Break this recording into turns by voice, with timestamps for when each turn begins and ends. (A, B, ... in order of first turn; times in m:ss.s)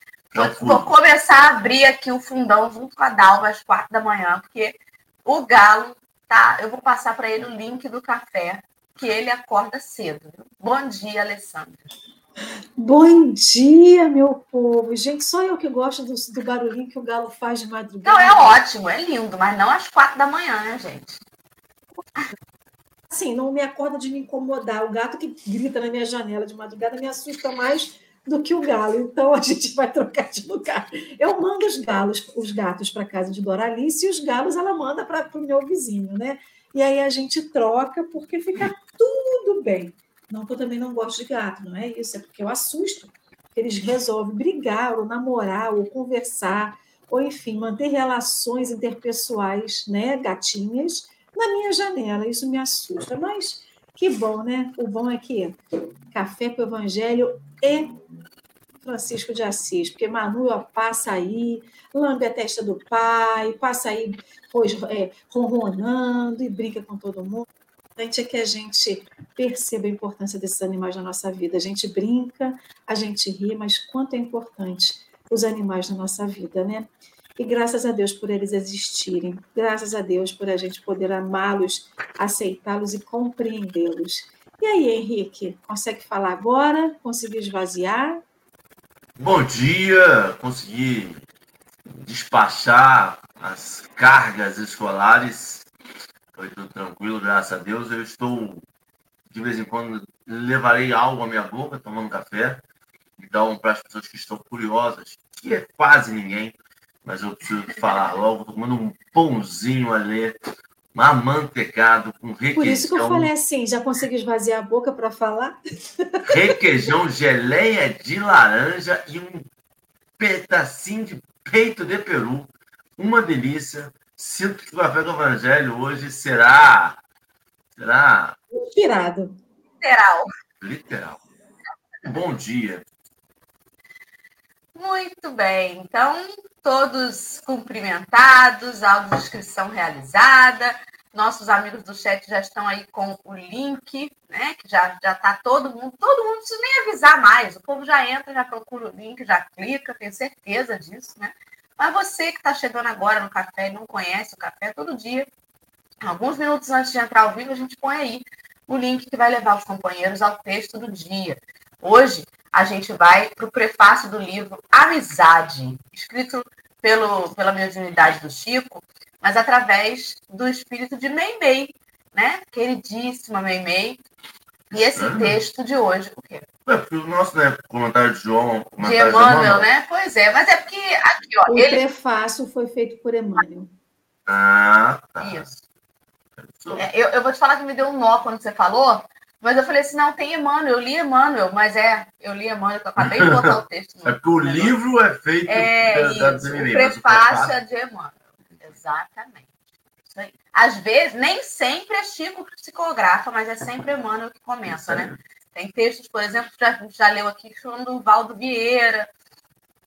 0:00.3-0:00.9 A
0:00.3-0:11.9 B
0:12.8-0:18.6 C
0:18.0-0:21.2 B
0:23.1-0:55.6 C
0:56.1-0:58.0 C
0:58.8-1:28.2 C
1:29.2-1:31.2 A
1:31.9-1:35.7 A
1:36.4-1:38.6 A
1:39.3-1:42.6 A
1:43.2-1:50.4 A
1:50.9-1:53.3 A
1:52.6-1:56.5 C
1:56.3-1:59.5 A
2:00.2-2:07.0 A
2:07.8-2:08.4 A
2:08.5-2:09.4 C
2:09.8-2:10.3 B
2:10.6-2:11.2 A
2:12.0-2:12.8 A
2:14.8-2:35.3 B
2:36.0-2:54.0 B
2:54.7-2:56.4 B
2:55.0-2:55.4 A
2:56.7-2:59.7 A
2:58.8-3:01.8 B
3:01.5-3:03.7 C
3:04.3-3:05.5 A
3:05.2-3:05.6 B
3:06.5-3:06.8 A
3:06.7-3:14.8 B
3:13.0-3:17.6 A
3:15.5-3:19.5 B
3:20.1-3:29.1 B
3:24.7-3:25.2 A